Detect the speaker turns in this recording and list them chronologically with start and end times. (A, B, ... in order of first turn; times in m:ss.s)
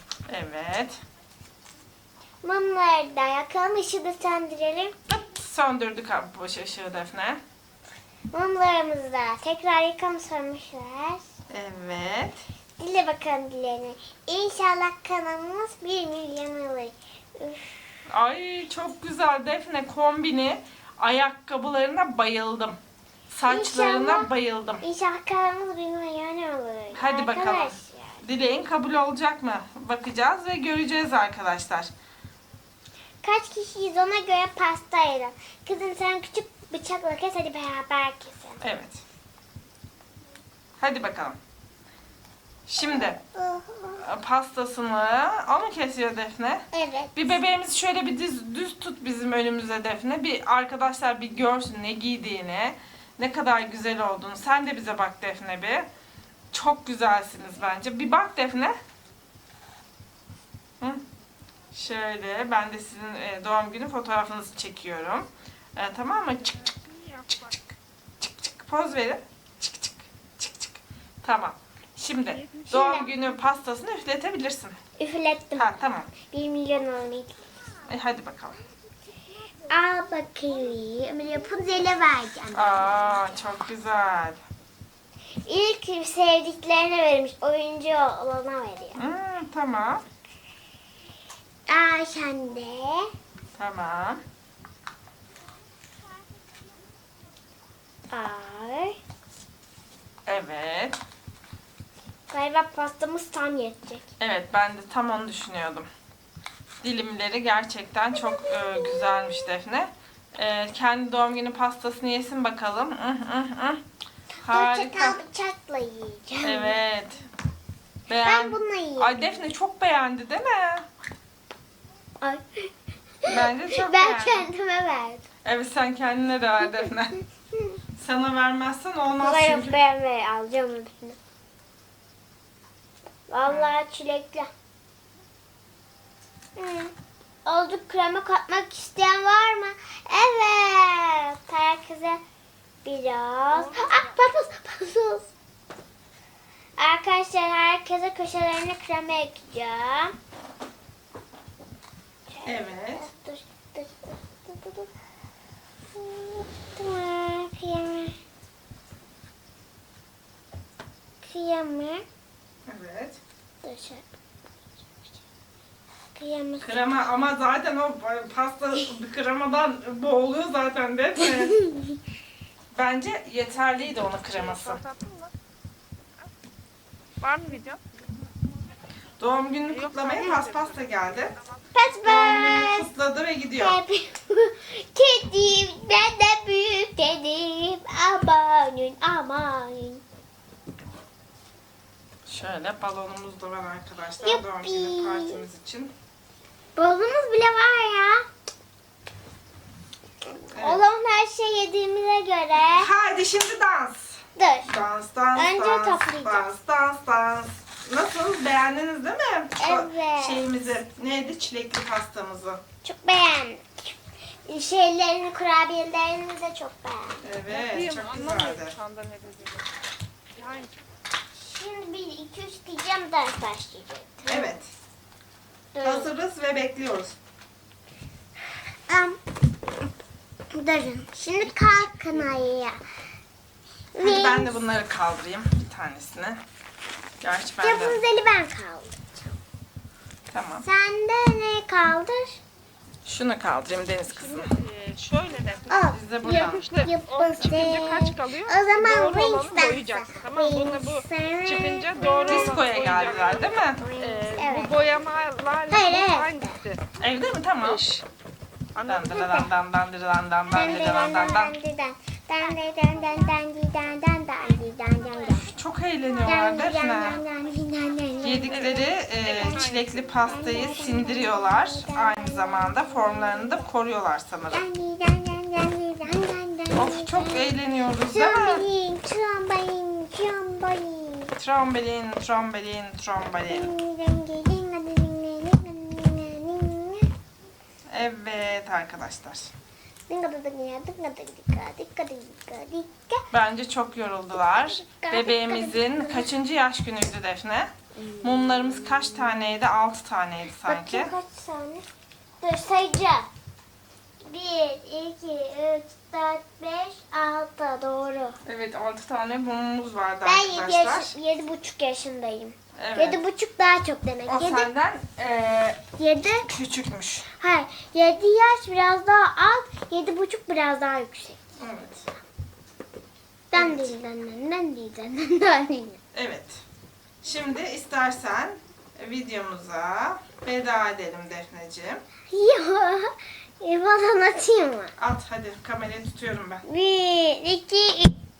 0:00.3-0:01.0 A
0:02.4-0:04.9 B
0:05.1-0:07.4 A
0:08.3-0:11.2 B
0:11.5-0:12.4 A
0:12.8-0:17.9 B
0:18.1-0:22.8 A
0:23.3-0:24.8 A
0:23.5-0:24.3 B
0:24.8-0:28.2 B
0:26.9-0:31.9 A
0:33.2-0:38.6 B
0:38.6-0:39.0 A
0:40.8-0:41.4 A
0:42.7-0:43.2 A
0:42.8-0:44.0 B
0:44.0-0:55.9 A
0:46.7-0:47.3 B
0:56.5-0:58.8 A
1:01.7-1:14.8 A
1:12.7-1:13.1 B
1:15.0-1:17.4 B
1:15.5-1:16.1 A
1:17.8-1:18.6 A
1:19.7-1:23.3 B
1:22.5-1:24.4 A
1:25.4-1:29.0 B
1:29.0-1:30.0 A
1:31.7-1:33.1 B
1:33.5-1:34.2 A
1:38.1-1:39.0 B
1:40.2-1:41.0 A
1:42.3-1:44.0 B
1:44.2-1:45.9 A
1:46.8-1:53.8 A
1:48.2-1:49.4 B
1:54.4-1:55.2 A
1:54.5-1:56.8 B
1:56.4-1:57.2 A
1:58.1-2:00.9 A
1:58.2-1:59.4 B
2:02.2-2:02.7 B
2:03.2-2:05.2 B
2:03.3-2:04.5 A
2:05.4-2:07.1 A
2:08.0-2:09.8 A
2:09.2-2:11.2 B
2:13.3-2:14.5 B
2:13.5-2:13.7 A
2:16.6-2:16.9 B
2:17.4-2:22.2 B
2:22.8-2:25.3 B
2:26.8-2:30.1 B
2:32.3-2:34.9 B
2:32.4-2:33.1 A
2:35.9-2:38.1 B
2:41.2-2:42.0 B
2:42.7-2:43.2 A
2:43.6-2:44.0 B
2:46.1-2:46.8 B
2:46.6-2:51.6 A
2:51.2-2:52.0 B
2:52.7-2:54.8 A
2:54.4-2:55.3 C
2:57.2-2:57.8 C
2:59.2-3:01.3 A
2:59.7-3:00.8 C
3:01.7-3:02.9 B
3:02.0-3:03.8 A
3:03.6-3:10.0 B
3:12.2-3:15.9 A
3:14.2-3:15.4 B
3:16.8-3:18.2 B
3:20.3-3:22.9 B
3:20.5-3:20.8 A
3:22.7-3:32.6 A
3:24.4-3:24.7 B
3:25.3-3:26.5 B
3:29.6-3:30.4 B
3:32.8-3:33.9 B
3:34.5-3:37.2 B
3:37.2-3:38.8 A
3:37.5-3:39.7 C
3:40.4-3:40.7 C
3:41.4-3:44.5 B
3:44.2-3:44.7 A
3:45.7-3:46.1 B
3:45.8-3:47.1 A
3:48.9-3:49.2 B
3:50.5-3:52.8 B
3:53.9-3:54.6 B
3:54.0-3:56.4 A
3:57.2-3:58.0 A
3:57.6-3:59.0 B
4:00.3-4:00.6 A
4:00.6-4:02.4 B
4:03.0-4:04.5 A
4:04.2-4:16.9 C
4:05.7-4:15.0 B
4:05.9-4:06.7 A
4:07.4-4:07.7 A
4:12.3-4:13.8 A
4:15.7-4:16.6 B
4:17.0-4:17.9 A
4:17.6-4:18.0 C
4:18.7-4:19.2 C
4:18.8-4:21.6 A
4:18.9-4:19.5 B
4:20.5-4:25.5 B
4:25.5-4:27.2 A
4:26.2-4:33.6 B
4:28.2-4:34.6 A
4:29.2-4:30.0 C
4:34.5-4:41.3 B
4:36.7-4:38.6 A
4:41.4-4:43.7 A
4:43.5-4:47.1 B
4:47.9-4:49.5 A
4:50.1-4:53.2 B
4:53.3-4:57.7 A
4:54.3-4:56.3 B
4:57.9-4:59.4 B
4:58.2-5:01.1 A
5:00.6-5:01.8 B
5:02.4-5:03.3 B
5:04.2-5:08.4 B
5:08.4-5:11.1 A
5:10.2-5:14.7 B
5:12.8-5:13.2 A
5:14.3-5:15.8 A
5:16.0-5:16.5 B
5:16.4-5:17.3 A
5:17.3-5:21.4 B
5:21.6-5:22.0 A
5:23.5-5:26.0 B
5:23.5-5:23.9 A
5:26.1-5:26.6 A
5:27.2-5:32.0 A
5:32.3-5:34.9 B
5:35.0-5:36.6 A
5:36.6-5:38.2 B